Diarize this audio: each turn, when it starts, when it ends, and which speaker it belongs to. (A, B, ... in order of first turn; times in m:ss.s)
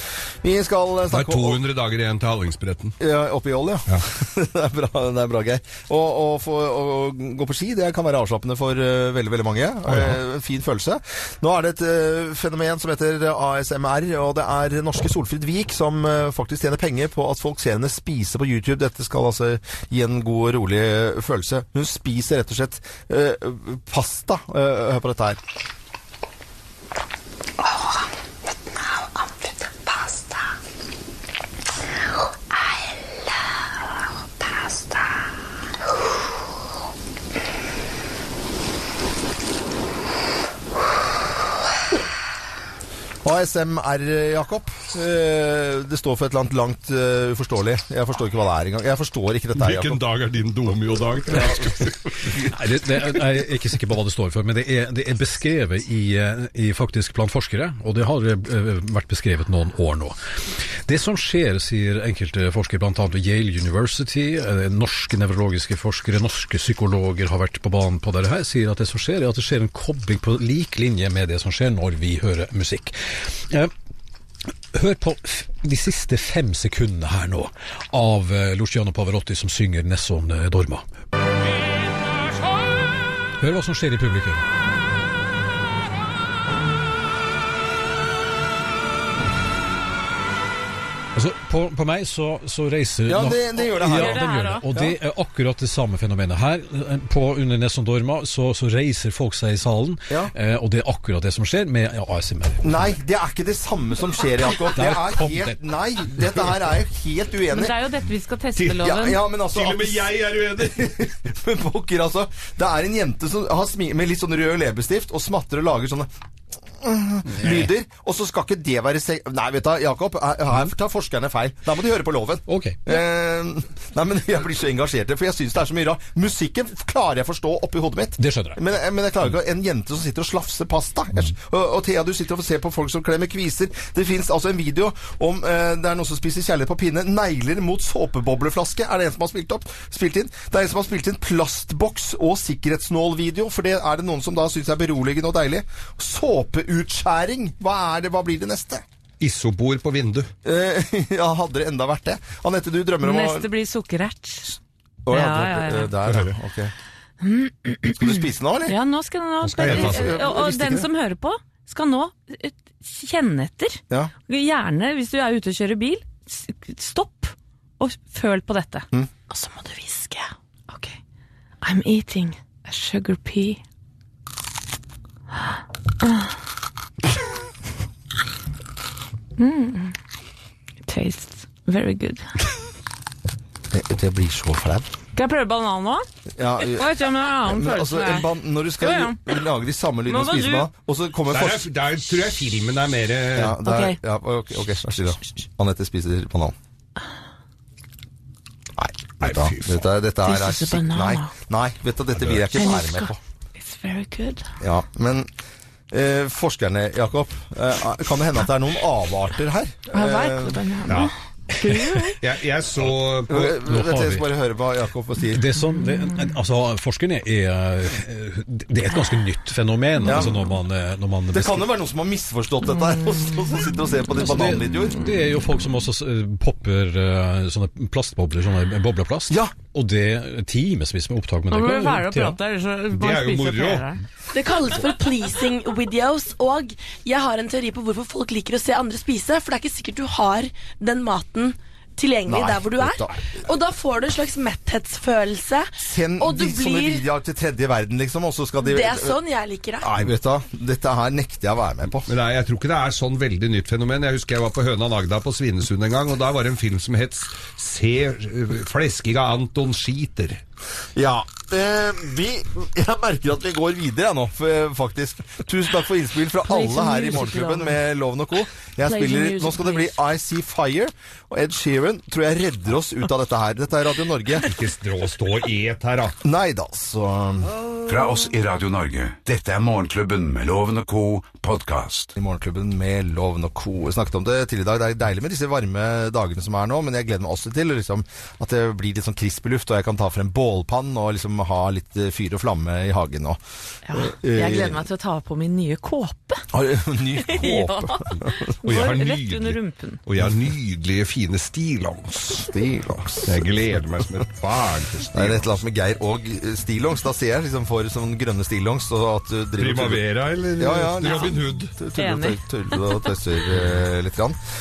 0:00.4-0:01.6 A
0:01.1-0:03.0 B
0:03.0-0:25.4 A
0:09.9-0:10.2 B
0:43.2-0:50.0 A
0:49.5-0:52.1 B
0:51.3-0:52.5 A
0:52.4-1:00.2 C
1:00.8-1:13.7 C
1:14.7-1:20.8 C
1:23.4-1:24.4 C
1:31.1-1:42.7 C
1:33.0-1:35.0 A
1:33.8-1:34.6 D
1:42.6-1:47.7 A
1:44.7-1:45.6 C
1:47.5-1:49.2 D
1:48.8-1:56.1 A
1:49.5-1:50.9 B
1:56.8-2:28.8 A
1:57.4-1:57.7 C
2:02.5-2:02.9 C
2:08.2-2:08.6 C
2:29.2-2:30.3 B
2:30.4-2:33.5 A
2:33.0-2:34.6 D
2:35.0-2:36.7 A
2:35.1-2:35.9 D
2:36.0-2:36.3 B
2:37.2-2:51.0 D
2:38.0-2:38.8 A
2:39.4-2:40.2 B
2:39.6-2:40.9 A
2:51.6-2:53.6 D
2:56.0-2:56.3 D
2:59.4-2:59.9 D
3:00.8-3:02.3 D
3:03.7-3:04.8 A
3:05.1-3:06.0 D
3:06.4-3:11.7 A
3:06.6-3:09.3 D
3:10.0-3:10.7 D
3:11.3-3:13.6 B
3:13.3-3:16.5 A
3:13.6-3:14.0 D
3:18.8-3:23.2 A
3:19.2-3:19.8 B
3:20.2-3:21.3 D
3:22.6-3:24.5 D
3:24.6-3:25.3 A
3:25.9-3:30.6 A
3:29.9-3:32.2 D
3:32.2-3:33.7 B
3:33.3-3:35.4 A
3:33.6-3:34.2 C
3:35.3-3:41.7 C
3:40.0-3:40.3 A
3:41.3-3:45.0 A
3:44.2-3:52.4 C
3:51.5-3:54.0 D
3:52.9-3:53.8 B
3:54.3-4:07.0 E
4:02.2-4:03.2 A
4:05.8-4:09.2 A
4:08.6-4:09.9 E
4:09.8-4:12.1 A
4:12.0-4:20.4 B
4:21.0-4:34.5 A
4:26.4-4:27.8 D
4:28.8-4:30.0 D
4:34.4-4:36.2 B
4:36.2-4:37.5 A
4:37.8-4:42.1 F
4:42.2-4:53.4 A
4:53.8-4:56.4 D
4:53.9-4:54.8 A
4:56.5-4:58.5 A
4:57.2-5:00.0 D
4:58.6-5:02.5 B
5:02.3-5:03.5 A
5:03.2-5:05.6 B
5:05.1-5:10.0 A
5:09.6-5:11.7 B
5:10.6-5:14.4 A
5:11.9-5:13.0 D